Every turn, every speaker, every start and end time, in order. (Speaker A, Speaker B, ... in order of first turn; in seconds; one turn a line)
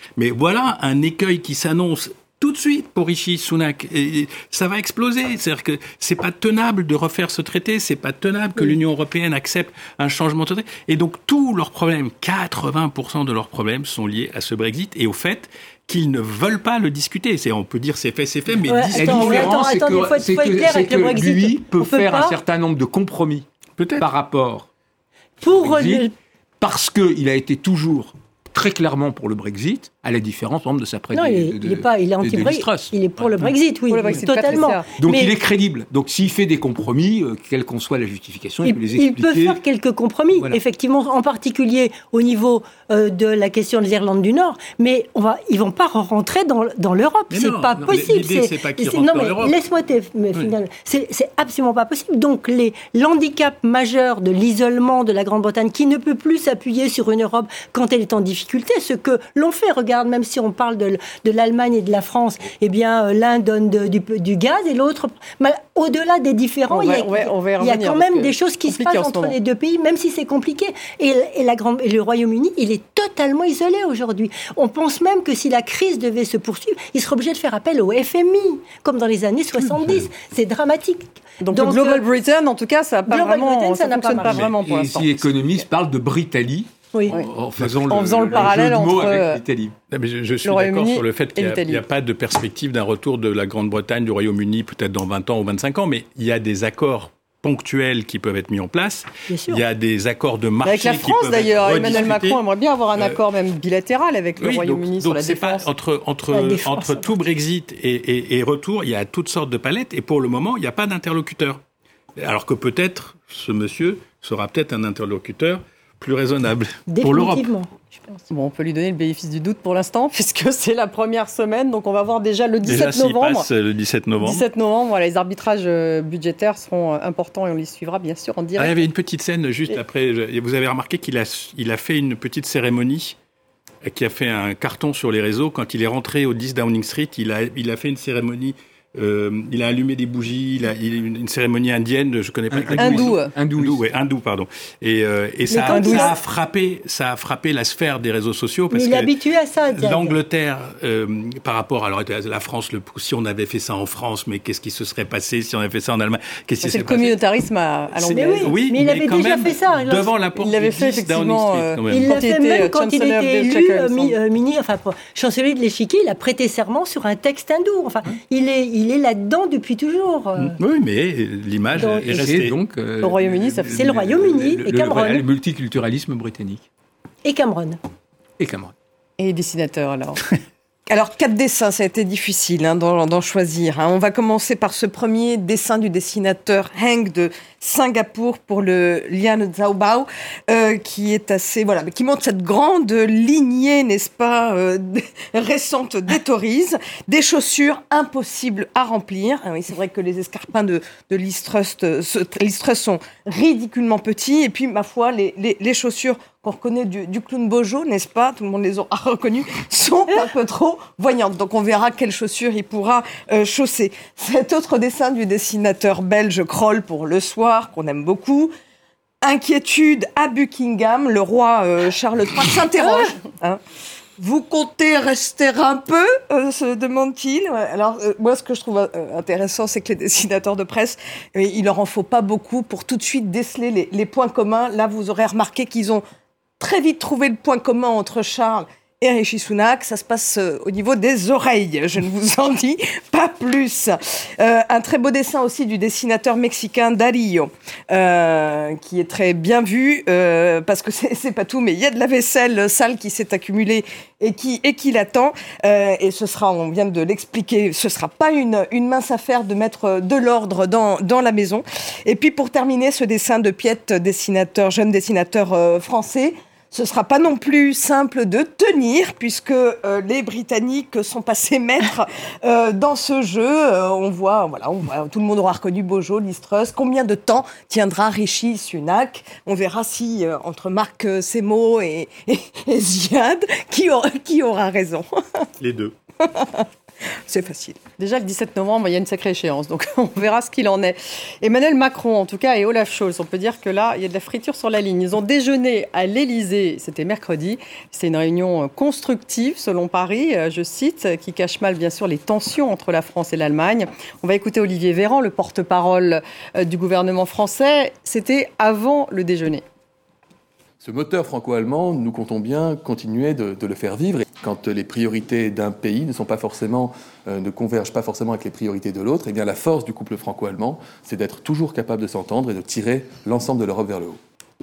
Speaker A: 0.2-19.6
Speaker B: 18.7-22.4
Speaker C: 18.9-23.5
Speaker A: 23.8-24.1
Speaker C: 24.0-24.7
Speaker B: 25.4-26.1
Speaker C: 25.5-26.1
Speaker C: 26.6-33.5
Speaker B: 31.1-35.3
Speaker D: 33.9-34.9
Speaker C: 35.0-39.6
Speaker B: 38.6-82.1
Speaker A: 47.3-49.6
Speaker D: 66.7-69.3
Speaker D: 81.4-85.2
Speaker B: 83.1-84.4
Speaker A: 84.3-84.6
Speaker C: 84.6-89.8
Speaker A: 87.6-88.6
Speaker D: 87.9-89.4
Speaker A: 89.9-102.4
Speaker D: 90.5-91.8
Speaker B: 99.3-99.6
Speaker D: 100.6-105.7
Speaker A: 103.0-103.2
Speaker A: 104.4-111.6
Speaker B: 106.3-107.1
Speaker A: 112.2-117.5
Speaker B: 116.9-118.2
Speaker D: 118.3-123.5
Speaker A: 122.6-124.5
Speaker D: 124.2-128.9
Speaker A: 128.6-133.2
Speaker A: 133.8-149.1
Speaker C: 142.5-143.8
Speaker D: 142.8-143.3
Speaker B: 145.5-146.1
Speaker D: 145.7-146.1
Speaker B: 148.7-150.2
Speaker A: 149.8-157.2
Speaker D: 156.6-158.6
Speaker A: 157.9-162.3
Speaker B: 158.1-160.1
Speaker D: 160.4-164.2
Speaker B: 161.9-170.6
Speaker A: 170.4-172.6
Speaker C: 171.8-176.7
Speaker D: 173.0-173.8
Speaker B: 173.7-175.2
Speaker B: 177.2-177.8
Speaker C: 178.4-178.7
Speaker D: 179.2-180.2
Speaker E: 180.9-218.5
Speaker E: 219.2-223.6
Speaker E: 224.2-236.0
Speaker E: 236.6-285.4
Speaker A: 285.6-285.9
Speaker E: 286.2-286.7
Speaker E: 287.3-287.8
Speaker D: 288.0-309.6
Speaker F: 310.8-324.2